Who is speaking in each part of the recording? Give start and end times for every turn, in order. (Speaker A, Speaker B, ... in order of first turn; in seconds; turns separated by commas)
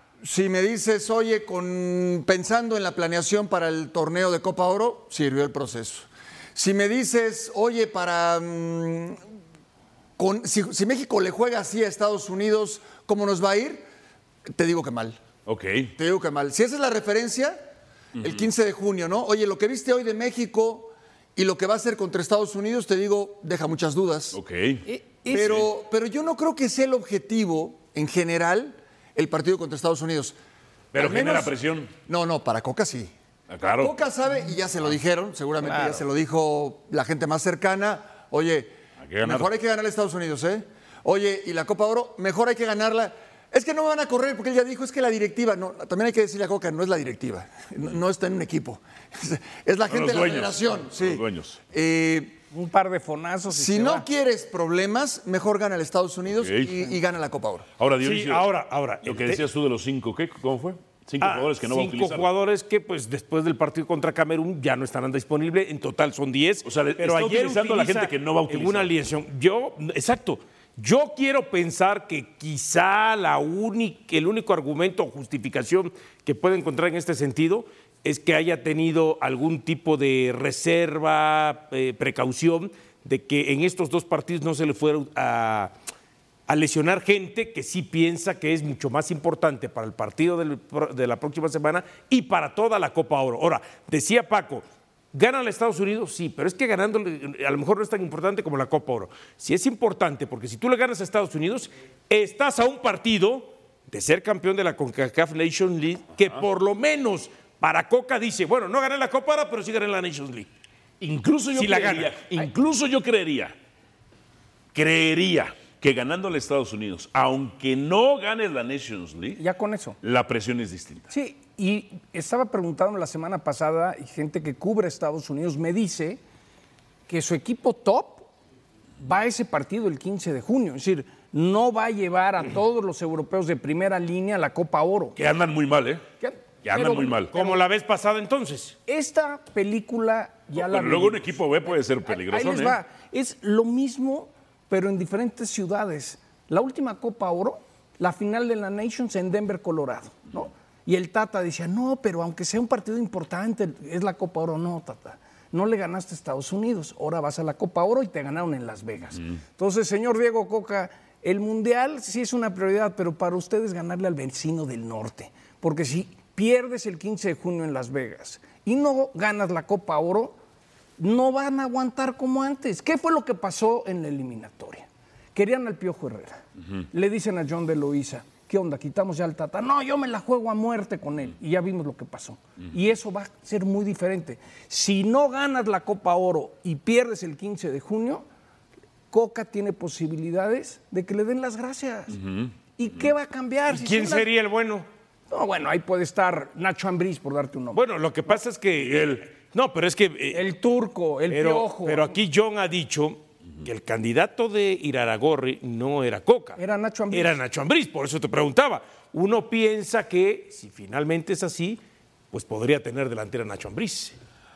Speaker A: 0.2-9.2, Speaker A: 10.2-13.9, Speaker A: 14.5-15.2, Speaker B: 15.5-15.9, Speaker A: 16.0-17.6, Speaker B: 18.2-18.5, Speaker A: 18.2-24.4, Speaker B: 24.3-24.9, Speaker C: 24.9-25.6, Speaker A: 25.3-30.4, Speaker B: 30.9-31.9, Speaker A: 30.9-31.5, Speaker A: 32.1-33.1, Speaker B: 33.5-34.0, Speaker A: 33.8-52.4, Speaker C: 35.6-36.0, Speaker B: 39.0-39.5, Speaker B: 49.9-51.6, Speaker C: 52.5-54.1, Speaker A: 53.5-57.7, Speaker B: 56.3-57.0, Speaker B: 57.8-58.5, Speaker D: 58.0-59.4, Speaker B: 59.0-62.3, Speaker D: 61.2-85.7, Speaker B: 66.6-68.9, Speaker D: 86.5-110.5, Speaker B: 111.0-113.5, Speaker D: 111.5-112.2, Speaker B: 114.7-119.4, Speaker C: 119.4-120.0, Speaker B: 120.0-121.1, Speaker C: 121.1-126.2, Speaker C: 127.1-128.3, Speaker C: 129.0-135.2, Speaker B: 135.2-136.1, Speaker C: 136.2-137.6, Speaker B: 136.6-137.3, Speaker D: 137.3-138.8, Speaker C: 138.9-170.4, Speaker B: 140.5-142.8, Speaker C: 171.0-188.2, Speaker C: 189.1-192.2, Speaker B: 192.1-193.1, Speaker C: 192.8-194.3, Speaker D: 193.7-194.9, Speaker C: 195.3-197.8, Speaker D: 197.7-200.5, Speaker B: 198.8-199.2, Speaker C: 200.3-202.2, Speaker D: 201.3-206.6, Speaker C: 206.6-207.4, Speaker D: 207.1-211.8, Speaker D: 212.3-214.2